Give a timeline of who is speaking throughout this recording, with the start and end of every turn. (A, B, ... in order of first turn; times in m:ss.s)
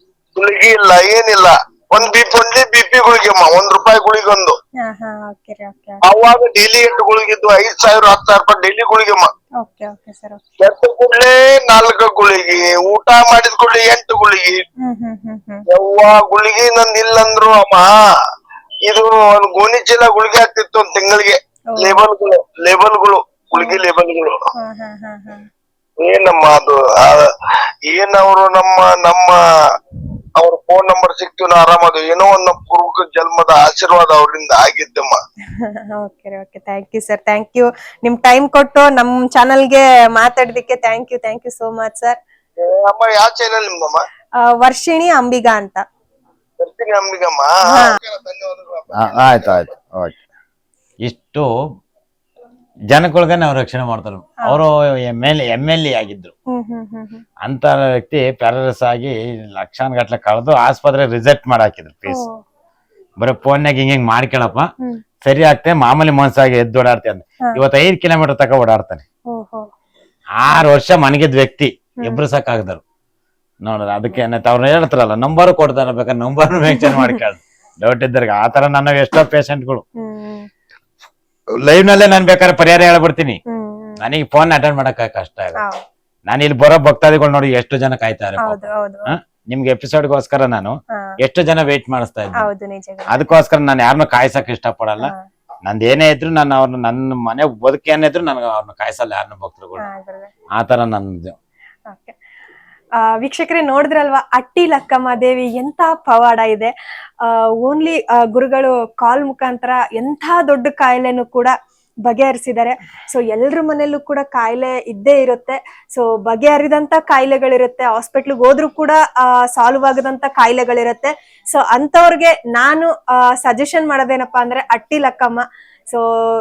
0:00.4-0:04.6 A
0:04.8-0:06.0 B
0:06.1-0:09.3 A
0:09.6-0:10.4 B
0:10.6-0:14.6 A
0:14.8-0:15.6 B
0:15.7-0:17.9 A
0:18.9-0:24.4 A
0:24.6-0:25.5 B
0:26.0-0:27.3 A
0:27.9-0:29.4 A
0:30.4-0:35.2 A
0:35.6-0:42.2 B
0:42.6-0:44.0 A
0:44.6-0:45.8 B
0:46.6-0:49.7 A
0:48.9-0:50.2 C
0:51.0-0:51.5 C
0:52.9-0:56.3 C
0:56.5-0:57.2 B
0:57.4-1:02.2 C
1:02.1-1:02.4 B
1:03.2-1:04.7 C
1:05.2-1:09.0 C
1:09.3-1:09.7 B
1:10.4-1:12.8 C
1:13.6-1:19.8 C
1:16.7-1:17.2 B
1:20.0-1:20.5 B
1:21.6-1:23.4 C
1:23.5-1:24.0 B
1:24.0-1:25.6 C
1:25.6-1:25.8 B
1:26.3-1:30.7 C
1:28.4-1:29.1 B
1:31.2-1:32.5 C
1:32.4-1:33.1 B
1:33.1-1:35.1 C
1:35.7-1:39.9 C
1:39.8-1:40.3 B
1:40.6-1:41.4 C
1:41.9-1:42.1 B
1:43.2-1:46.7 B
1:47.2-1:51.5 B
1:52.1-2:06.0 B